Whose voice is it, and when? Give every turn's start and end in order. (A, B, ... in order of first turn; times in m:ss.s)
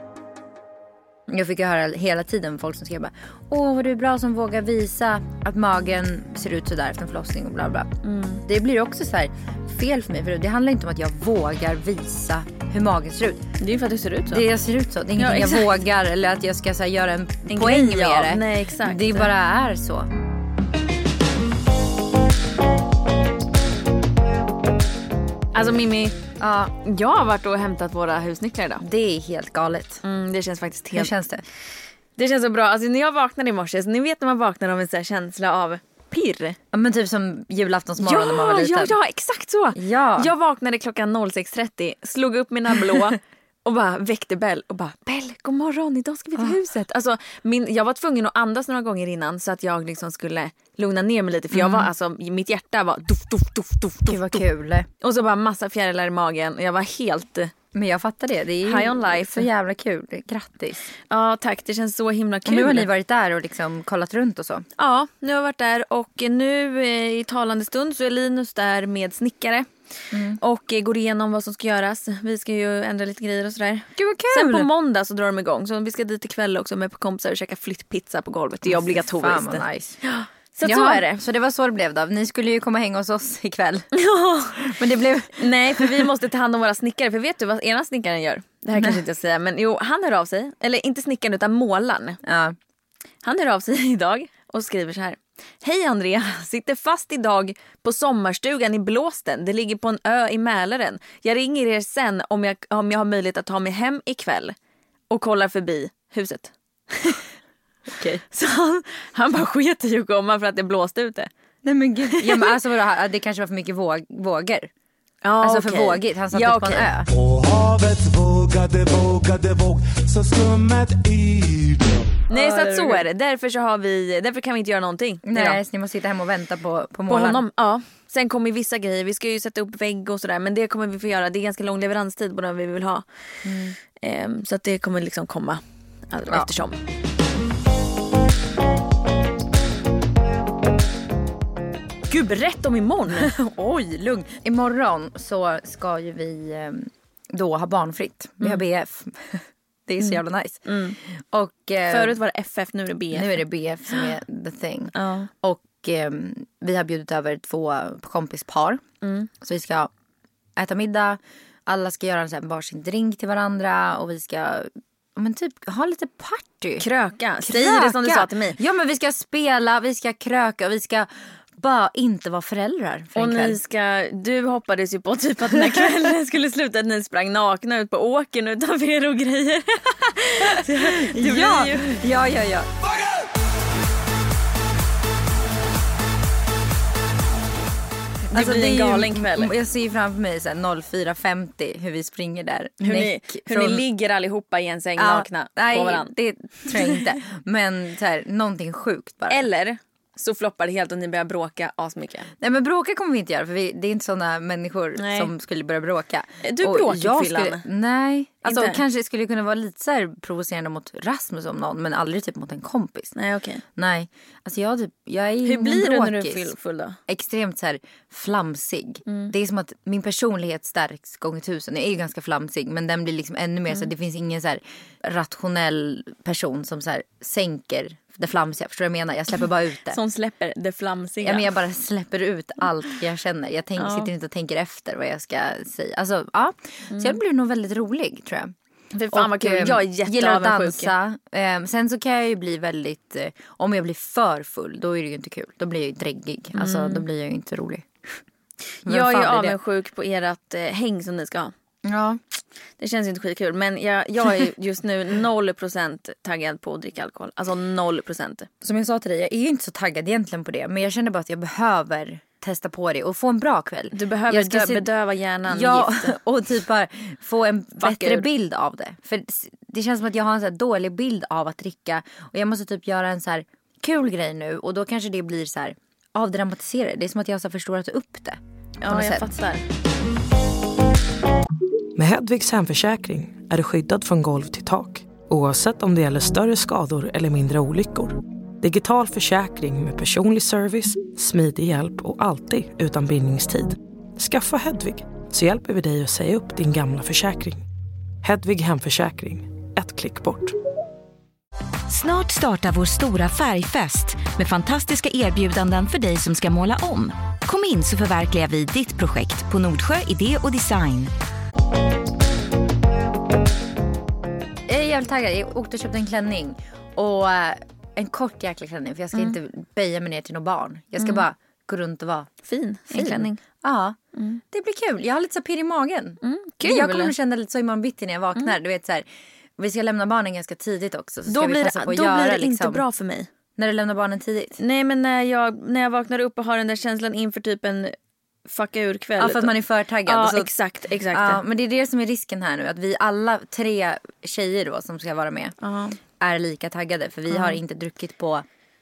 0:01.3-0:07.9 A
0:08.0-0:08.4 B
0:08.4-0:13.4 A
0:13.6-0:14.4 B
0:14.3-0:20.1 A
0:15.2-0:15.7 B
0:17.5-0:19.3 B
0:25.5-0:26.2 B
0:26.4-0:26.7 A
0:26.8-0:28.8 B
0:28.8-0:30.0 A
0:30.0-0:31.1 B
0:30.9-0:31.4 A
0:32.2-0:36.6 B
0:36.7-0:39.0 A
0:38.0-0:54.4 B
0:39.8-0:40.3 A
0:51.5-0:51.9 A
0:54.1-0:54.9 A
0:55.0-0:57.5 B
0:57.7-1:00.8 A
0:58.6-0:59.5 B
1:01.1-1:02.9 B
1:02.4-1:04.7 A
1:04.8-1:09.7 B
1:10.1-1:10.4 A
1:10.4-1:21.2 B
1:14.0-1:14.7 A
1:18.7-1:20.0 A
1:20.6-1:23.9 A
1:24.0-1:24.7 B
1:24.5-1:26.1 A
1:25.3-1:32.2 B
1:32.2-1:32.6 A
1:33.2-1:44.6 B
1:45.1-1:47.2 B
1:47.9-1:48.2 A
1:48.3-1:51.3 B
1:51.6-1:54.7 A
1:52.1-1:52.5 B
1:55.2-1:56.9 B
1:55.4-1:57.1 A
1:57.1-2:02.0 C
2:02.3-2:03.0 A
2:02.3-2:05.6 B
2:05.2-2:07.4 A
2:07.1-2:13.1 B
2:13.4-2:13.8 A
2:14.0-2:16.8 B
2:16.3-2:16.5 A
2:22.1-2:23.3 B
2:23.2-2:32.2 A
2:30.0-2:31.0 B
2:31.9-2:33.4 B
2:33.1-2:38.8 A
2:34.9-2:35.3 B
2:39.0-2:39.3 B
2:39.4-2:39.9 A
2:40.6-2:46.8 A
2:46.8-2:48.6 B
2:47.4-2:53.6 A
2:53.2-3:02.0 B
2:55.5-2:55.8 A
3:00.5-3:02.7 A
3:08.3-3:13.8 A
3:08.3-3:09.5 B
3:12.8-3:17.1 B
3:15.0-3:19.4 A
3:19.3-3:22.3 B
3:22.4-3:33.1 A
3:25.0-3:25.3 B
3:26.4-3:27.6 B
3:28.4-3:28.8 B
3:33.2-3:33.6 B
3:33.8-3:36.5 A
3:35.4-3:37.0 B
3:37.1-3:50.0 A
3:39.1-3:39.3 B
3:49.9-3:51.5 B
3:51.2-3:58.5 A
3:53.8-3:54.1 B
3:56.9-3:57.2 B
3:58.9-4:00.9 B
3:59.1-4:08.2 A
4:06.6-4:07.0 B
4:08.8-4:11.5 B
4:08.8-4:09.6 A
4:11.8-4:12.2 A
4:12.8-4:18.5 B
4:18.6-4:24.9 A
4:23.9-4:26.1 B
4:25.5-4:39.4 A
4:27.8-4:28.3 B
4:38.8-4:39.6 B
4:42.0-4:57.6 D
4:58.2-5:00.6 D
5:01.9-5:11.1 E
5:14.7-5:22.3 A
5:21.0-5:21.2 B
5:22.4-5:23.4 B
5:22.9-5:24.0 A
5:24.2-5:24.4 B
5:24.5-5:29.1 A
5:26.2-5:27.1 B
5:29.6-5:32.8 A
5:31.3-5:33.3 B
5:33.6-5:34.6 A
5:34.6-5:37.9 B
5:38.4-5:39.5 B
5:39.2-5:40.5 A
5:40.1-5:41.4 B
5:41.1-5:45.6 A
5:45.6-5:46.0 B
5:46.2-5:48.4 A
5:47.3-5:47.6 B